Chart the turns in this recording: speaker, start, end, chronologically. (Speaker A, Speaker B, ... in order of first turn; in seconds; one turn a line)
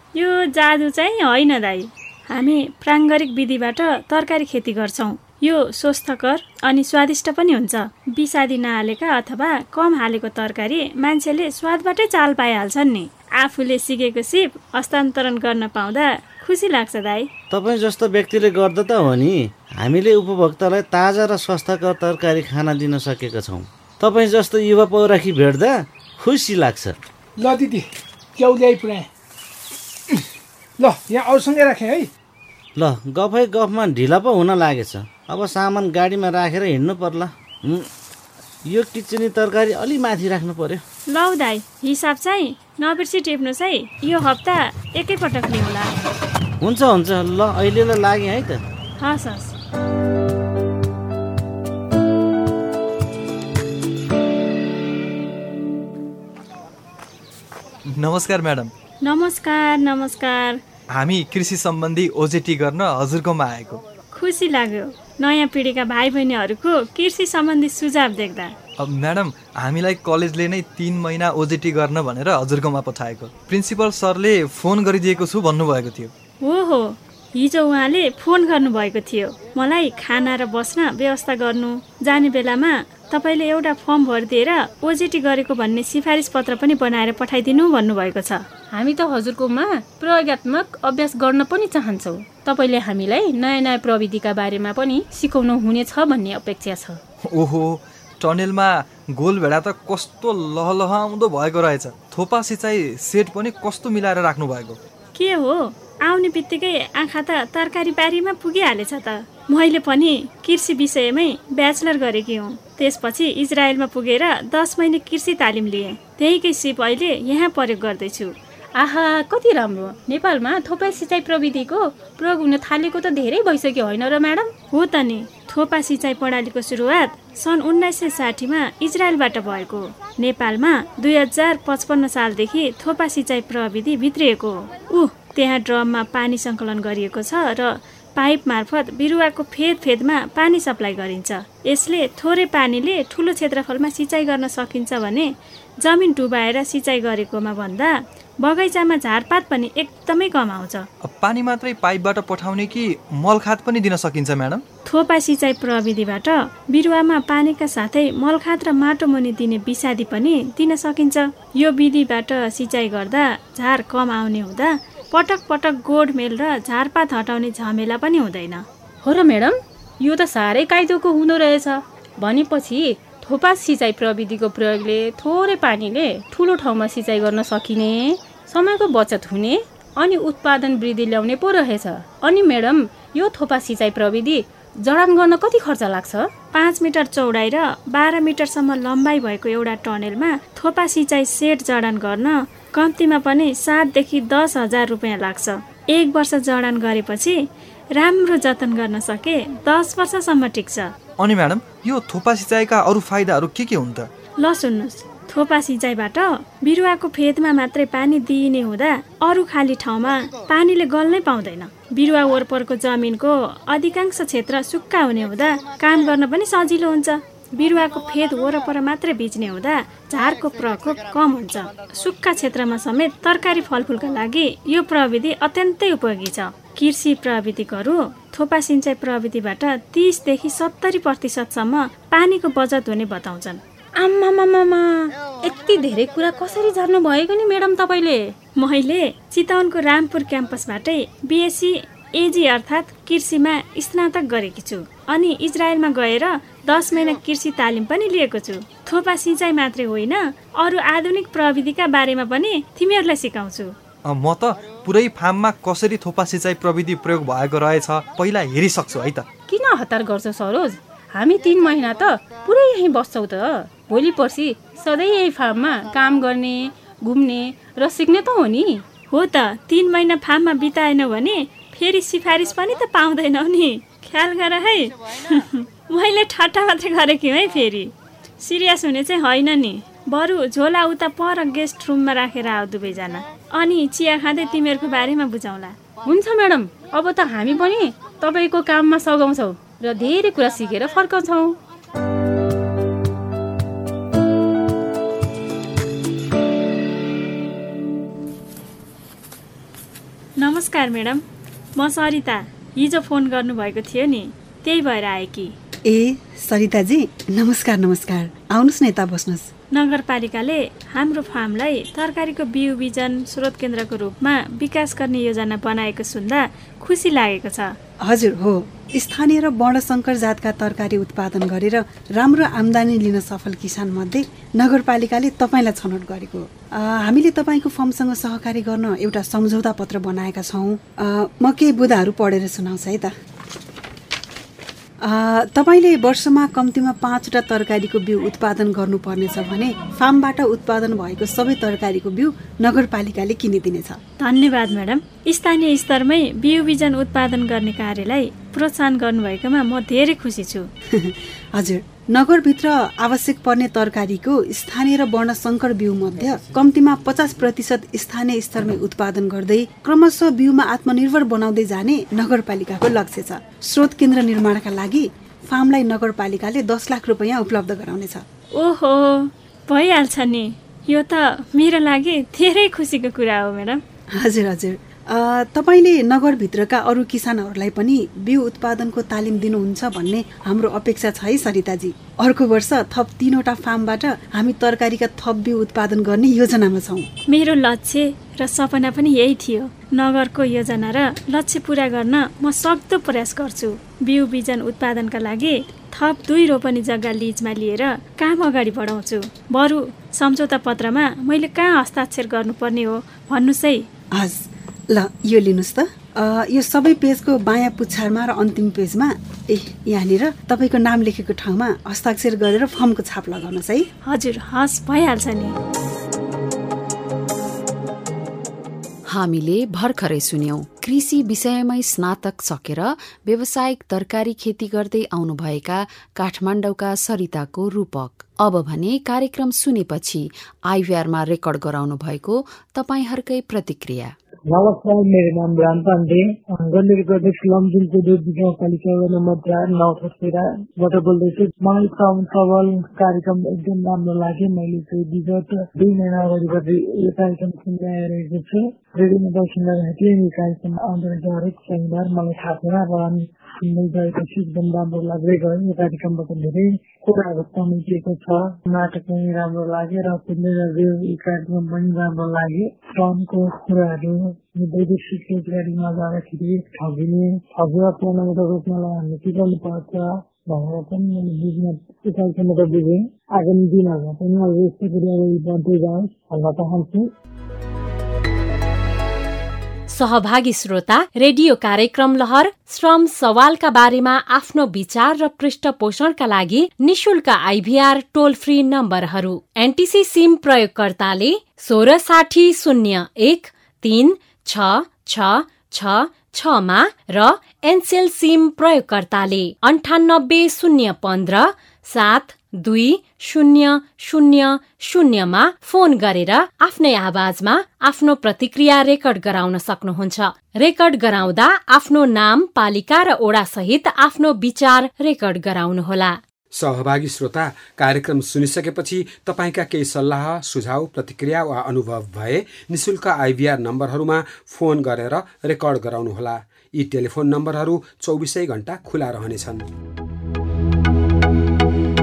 Speaker A: 0.1-17.3
Speaker B: 17.5-27.0
Speaker C: 27.4-27.9
Speaker C: 28.4-29.1
Speaker C: 30.8-32.1
Speaker B: 32.8-37.9
Speaker B: 38.6-40.8
Speaker A: 41.1-45.9
Speaker B: 46.6-48.6
Speaker A: 49.0-49.5
Speaker D: 57.9-58.7
Speaker A: 59.0-60.6
Speaker D: 60.9-63.8
Speaker A: 64.1-68.5
Speaker D: 68.8-76.1
Speaker A: 76.4-88.4
Speaker E: 88.7-97.0
Speaker D: 97.3-104.8
Speaker A: 105.1-118.3
Speaker E: 118.8-124.5
Speaker A: 124.7-145.3
Speaker A: 145.8-150.9
Speaker D: 151.0-154.6
Speaker A: 154.8-168.7
Speaker E: 169.0-186.3
Speaker A: 186.5-197.4
Speaker A: 197.9-200.9
Speaker D: 201.2-204.1
Speaker A: 204.4-233.6
Speaker E: 234.0-238.3
Speaker A: 238.6-253.7
Speaker D: 254.0-259.2
Speaker E: 259.5-268.8
Speaker A: 269.1-285.8
Speaker E: 286.0-291.6
Speaker A: 300.4-301.2
Speaker A: 301.8-305.5
Speaker F: 305.9-309.5
Speaker A: 309.7-317.8
Speaker F: 318.1-333.1
Speaker F: 335.0-344.0
Speaker A: 344.2-350.7
Speaker F: 350.9-368.2
Speaker A: 368.6-373.8
Speaker F: 374.2-387.1
Speaker A: 387.3-403.9
Speaker F: 404.1-413.9
Speaker A: 414.1-415.5
Speaker G: 419.1-434.1
Speaker H: 434.5-477.1
Speaker I: 479.9-516.2
Speaker J: 516.5-529.6